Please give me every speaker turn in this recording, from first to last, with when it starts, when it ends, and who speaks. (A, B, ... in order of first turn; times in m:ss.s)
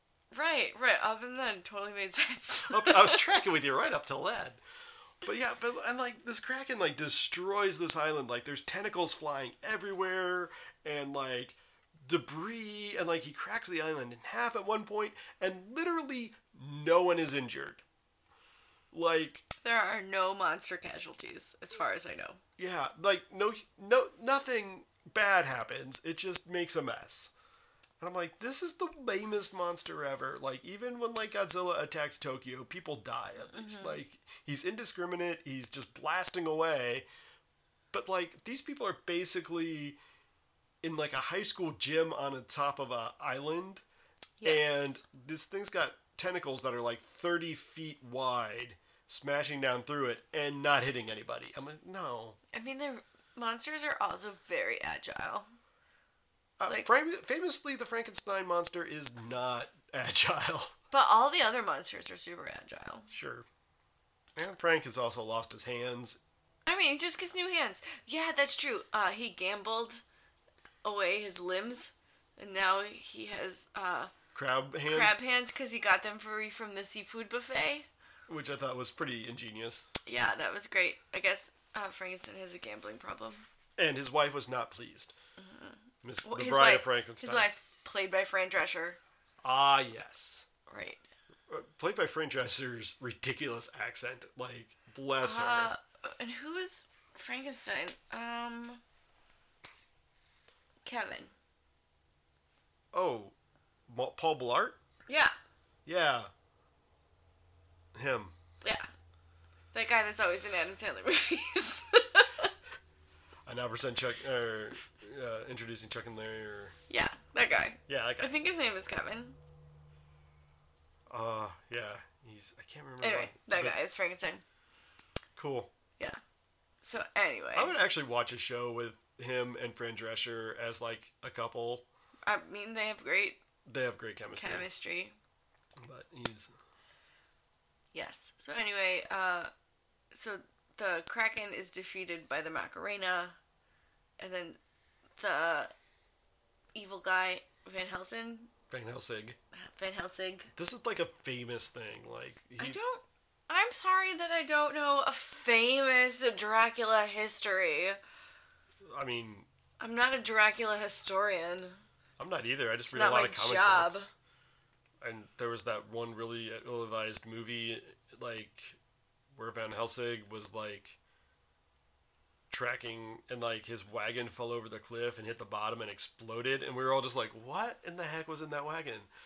0:00.3-0:03.4 A
0:02.7-0:04.6 B
0:05.2-0:17.8 B
0:18.9-0:19.4 B
0:19.6-0:22.4 A
0:22.6-0:27.3 B
0:28.0-0:37.0 B
0:33.4-0:34.0 A
0:37.9-0:40.0 B
0:40.8-0:43.8 B
0:44.4-0:45.0 A
0:44.4-0:52.4 B
0:52.5-0:55.5 A
0:56.6-1:00.7 B
1:00.9-1:03.1 A
1:03.1-1:03.4 B
1:04.4-1:06.2 B
1:06.6-1:10.0 A
1:10.8-1:14.1 A
1:14.3-1:15.2 B
1:14.9-1:17.9 A
1:18.3-1:19.9 B
1:20.0-1:23.4 A
1:23.8-1:25.1 B
1:25.4-1:29.0 A
1:26.0-1:27.5 B
1:29.4-1:30.5 B
1:30.7-1:31.0 A
1:31.5-1:35.7 B
1:35.2-1:38.8 A
1:40.8-1:41.3 A
1:42.9-1:43.3 B
1:43.9-1:44.8 B
1:45.1-1:45.3 A
1:45.8-1:46.3 B
1:47.9-1:48.3 B
1:48.6-1:48.9 A
1:49.7-1:52.5 A
1:53.5-1:56.8 B
1:56.9-1:59.4 A
1:57.9-1:58.4 B
2:01.1-2:03.8 B
2:03.0-2:04.4 A
2:05.4-2:05.7 B
2:06.8-2:07.8 A
2:07.5-2:11.8 B
2:12.2-2:13.4 A
2:13.6-2:14.7 B
2:14.4-2:15.2 A
2:15.8-2:16.5 B
2:17.9-2:19.5 A
2:20.1-2:23.4 A
2:24.2-2:24.6 A
2:25.2-2:25.7 A
2:26.7-2:28.5 A
2:28.7-2:29.4 B
2:29.5-2:30.5 A
2:30.5-2:32.8 B
2:32.6-2:38.0 A
2:38.8-2:39.5 B
2:39.8-2:41.8 A
2:42.2-2:44.1 B
2:42.9-2:44.1 A
2:45.0-2:48.8 B
2:49.3-2:51.0 B
2:52.5-2:59.1 B